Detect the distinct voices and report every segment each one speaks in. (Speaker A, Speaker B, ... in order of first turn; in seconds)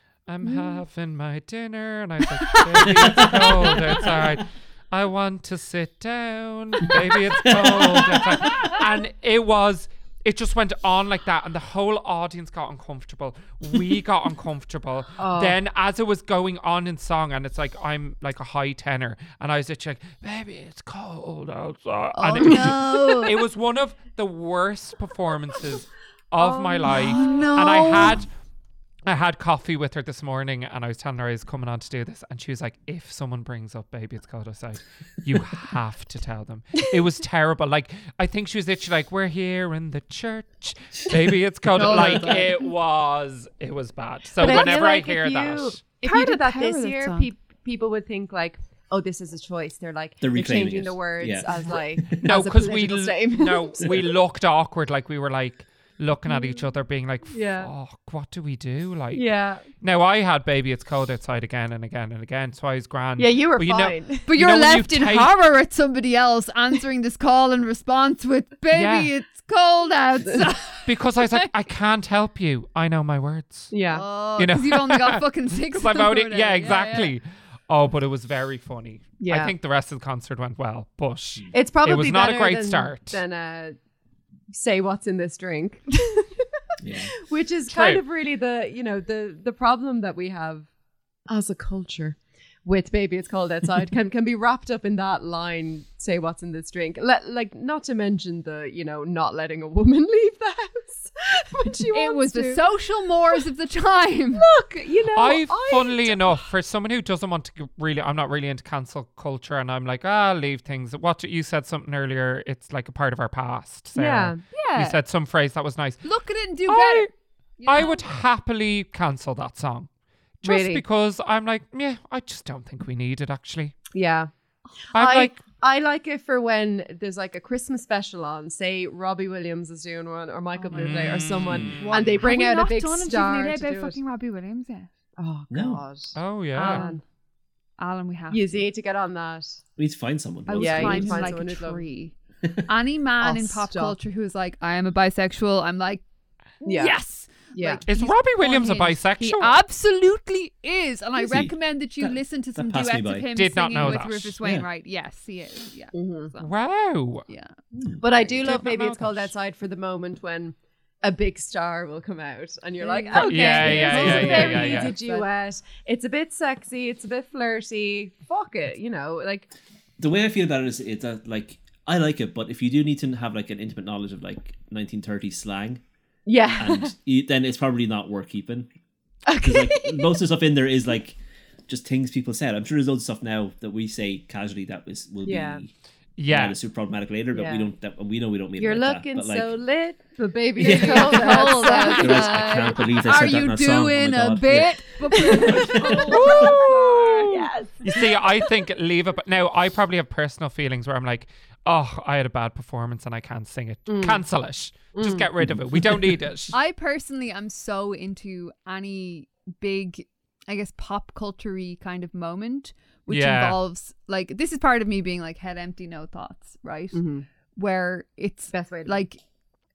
Speaker A: 0.2-28.3, 29.1-45.8, 52.2-65.3, 68.7-69.1, 70.8-73.7, 74.4-83.2, 87.7-88.0, 105.1-117.1, 117.6-123.8, 124.9-125.4, 130.7-132.0, 136.1-136.8, 147.8-149.6, 153.3-154.3, 156.4-157.3, 158.4-159.3, 163.1-164.9, 186.2-186.6, 196.1-196.8, 197.8-206.5, 213.1-213.6
Speaker B: 0.4-0.8, 22.1-23.3, 26.9-28.2, 41.7-42.6, 44.4-44.8, 46.0-47.3, 56.3-56.6, 64.2-71.5, 73.9-77.1, 101.9-104.4, 114.5-115.0, 116.0-118.1, 130.6-134.9, 136.6-137.0, 137.8-138.4, 140.4-146.0, 146.6-156.6, 157.3-157.6, 158.2-158.7, 162.8-165.3, 190.6-197.5, 206.5-219.2
Speaker C: 2.8-4.4, 7.4-8.5, 50.2-52.2, 86.8-87.1, 131.5-131.8, 135.5-135.8, 139.8-141.3, 151.2-154.7, 170.0-175.8, 176.5-178.7, 179.4-185.7, 186.3-189.6, 190.6-196.3, 205.4-205.8
Speaker D: 15.2-15.5, 22.5-23.2, 26.4-27.5, 41.8-42.4, 44.4-54.0, 57.3-57.7, 59.1-59.6, 63.2-64.3, 73.7-74.0, 79.2-79.5, 81.5-83.8, 84.5-86.5, 87.0-90.7, 91.3-102.6, 104.3-106.4, 113.9-114.4, 120.4-120.8, 123.9-124.3, 124.9-134.0, 135.2-137.0, 138.3-139.6, 140.5-141.8, 143.2-143.9, 146.6-147.0, 147.5-147.8, 155.9-156.3, 158.0-169.5, 176.2-176.9, 179.3-180.1, 185.2-185.6, 187.3-187.7, 188.6-192.4, 195.1-198.5, 203.9-204.2, 204.9-205.3, 216.9-217.2, 218.5-219.1